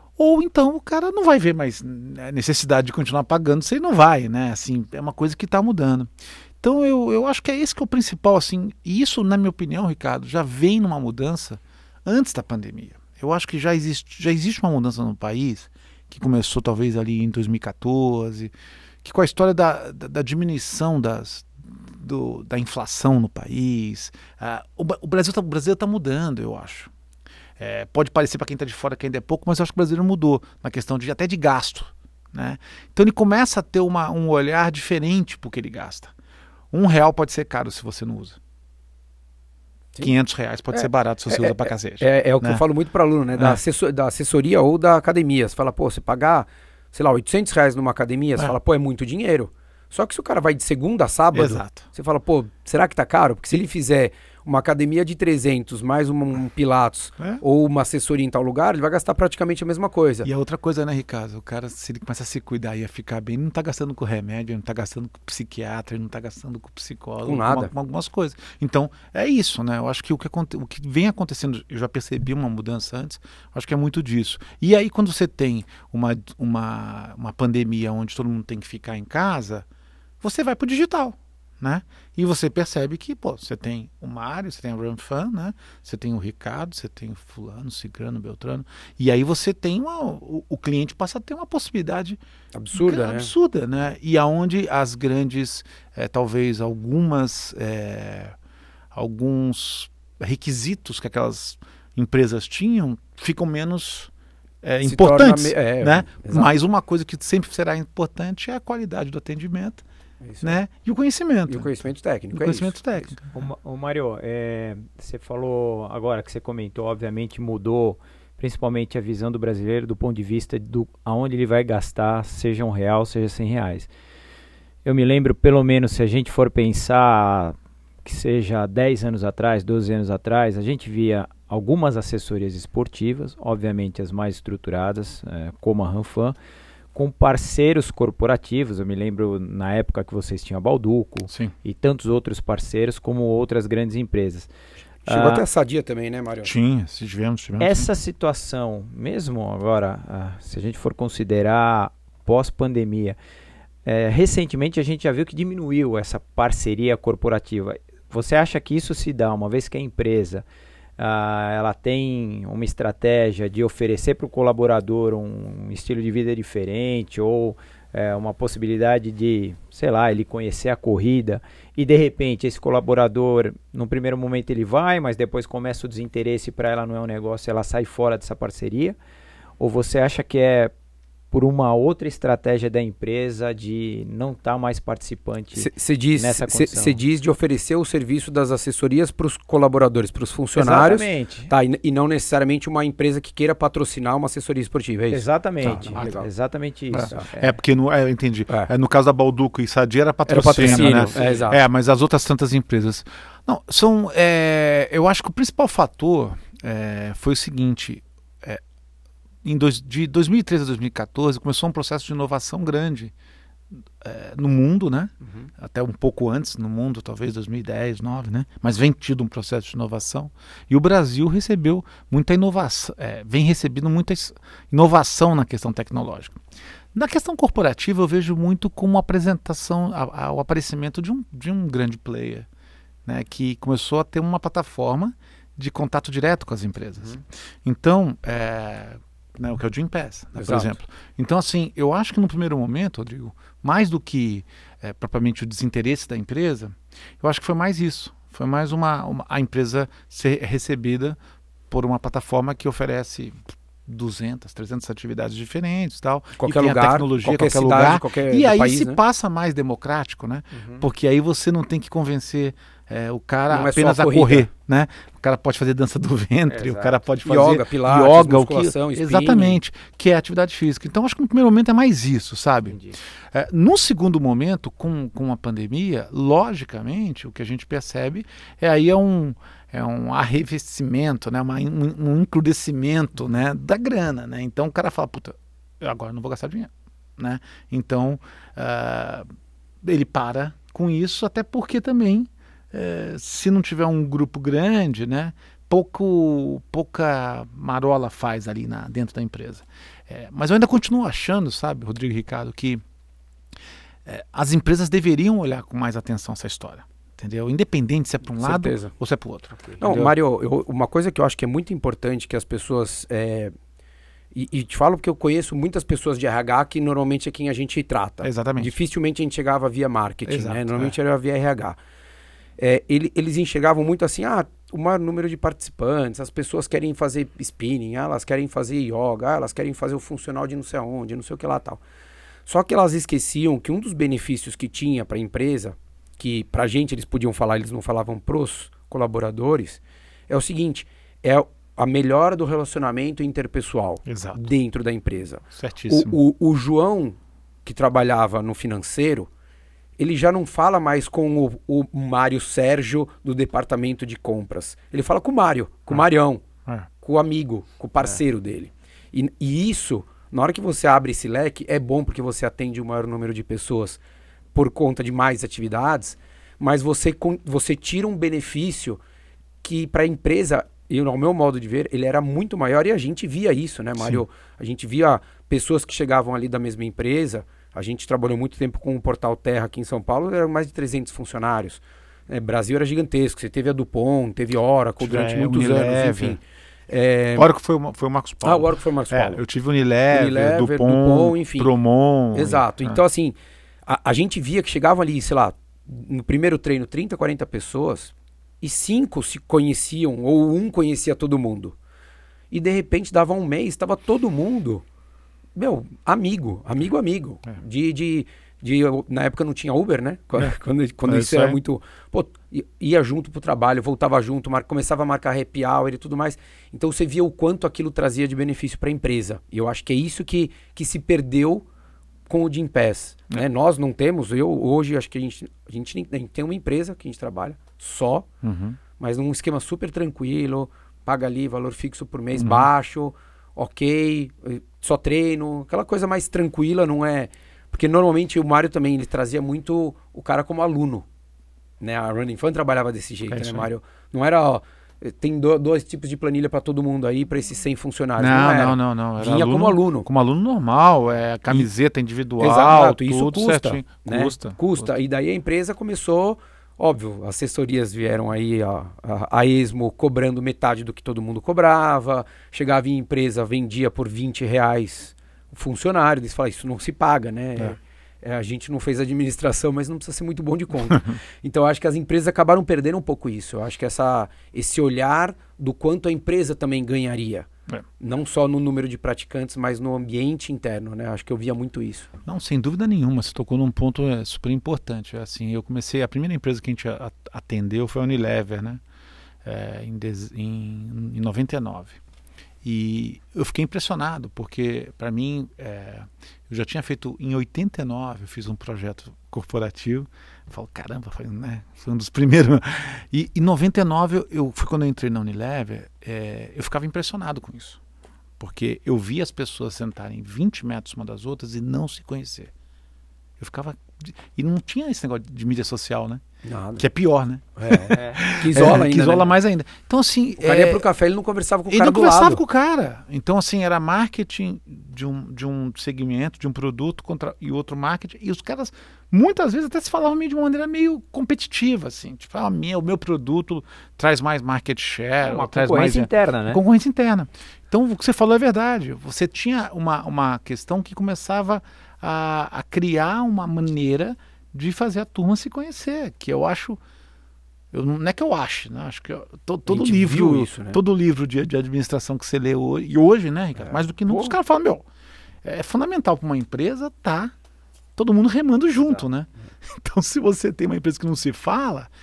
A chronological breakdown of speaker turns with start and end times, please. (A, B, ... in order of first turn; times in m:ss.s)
0:00.2-0:18.5 A
0:19.0-0:26.9 A
0:27.6-0:36.1 A
0:36.7-0:38.4 A
0:40.0-0:42.6 A
0:40.7-1:00.3 B
0:43.4-0:43.6 A
0:51.3-0:51.9 A
1:00.2-1:19.7 A
1:07.2-1:07.7 B
1:20.2-1:32.2 A
1:32.5-1:33.3 B
1:32.7-1:38.4 A
1:38.9-1:44.1 A
1:44.6-1:49.8 A
1:44.8-1:46.5 B
1:50.2-1:50.6 B
1:50.4-1:51.8 A
1:51.5-1:52.7 B
1:52.3-1:53.3 A
1:53.3-2:03.9 C
2:04.8-2:16.3 C
2:16.9-2:24.5 C
2:25.0-2:26.5 B
2:25.1-2:25.4 C
2:26.4-2:27.9 A
2:27.6-2:33.2 C
2:33.8-2:40.4 C
2:41.0-2:59.0 C
2:59.6-3:00.7 C
3:01.3-3:07.0 C
3:05.6-3:16.3 B
3:10.5-3:11.5 C
3:15.1-3:17.5 C
3:15.6-3:16.2 A
3:16.9-3:28.6 A
3:20.3-3:21.6 B
3:20.6-3:21.4 C
3:29.4-3:33.1 A
3:34.0-3:46.4 A
3:46.9-3:52.5 A
3:53.0-4:11.2 A
4:00.3-4:00.8 B
4:11.7-4:49.2 A
4:16.4-4:19.0 B
4:20.5-4:20.8 C
4:23.5-4:24.5 B
4:26.5-4:27.0 C
4:27.2-4:29.6 B
4:32.7-4:33.0 C
4:49.8-5:02.8 A
5:04.0-5:10.2 A
5:08.4-5:08.9 B
5:09.8-5:13.5 B
5:14.3-5:21.8 B
5:18.2-5:18.7 A
5:20.2-5:21.0 A
5:22.6-5:31.8 B
5:32.4-5:49.3 B
5:44.0-5:44.4 A
5:45.5-5:46.2 A
5:50.0-5:56.4 B
5:57.0-6:04.0 B
6:04.5-6:09.0 B
6:09.6-6:27.5 B
6:14.0-6:14.2 A
6:25.0-6:26.4 A
6:27.3-6:33.0 A
6:28.4-6:29.4 B
6:30.1-6:31.7 B
6:32.3-6:41.7 B
6:42.5-6:44.8 B
6:45.6-7:01.6 B
6:50.4-6:51.6 A
7:02.3-7:08.3 B
7:08.4-7:08.8 A
7:09.0-7:21.0 B
7:12.3-7:12.7 A
7:21.8-7:30.1 B
7:23.3-7:23.7 A
7:28.2-7:34.9 A
7:32.4-7:57.5 B
7:58.0-8:02.1 B
8:02.2-8:08.8 A
8:09.4-8:12.0 A
8:12.6-8:27.8 A
8:28.4-8:32.5 A
8:33.4-8:36.2 A
8:36.4-8:36.8 B
8:36.8-8:40.9 A
8:37.6-8:39.4 B
8:37.9-8:38.2 C
8:40.4-8:42.4 B
8:41.7-9:06.8 A
8:55.2-8:56.6 C
9:07.7-9:14.8 A
9:09.7-9:10.8 B
9:13.6-9:14.4 B
9:15.4-9:17.3 A
9:18.0-9:21.9 A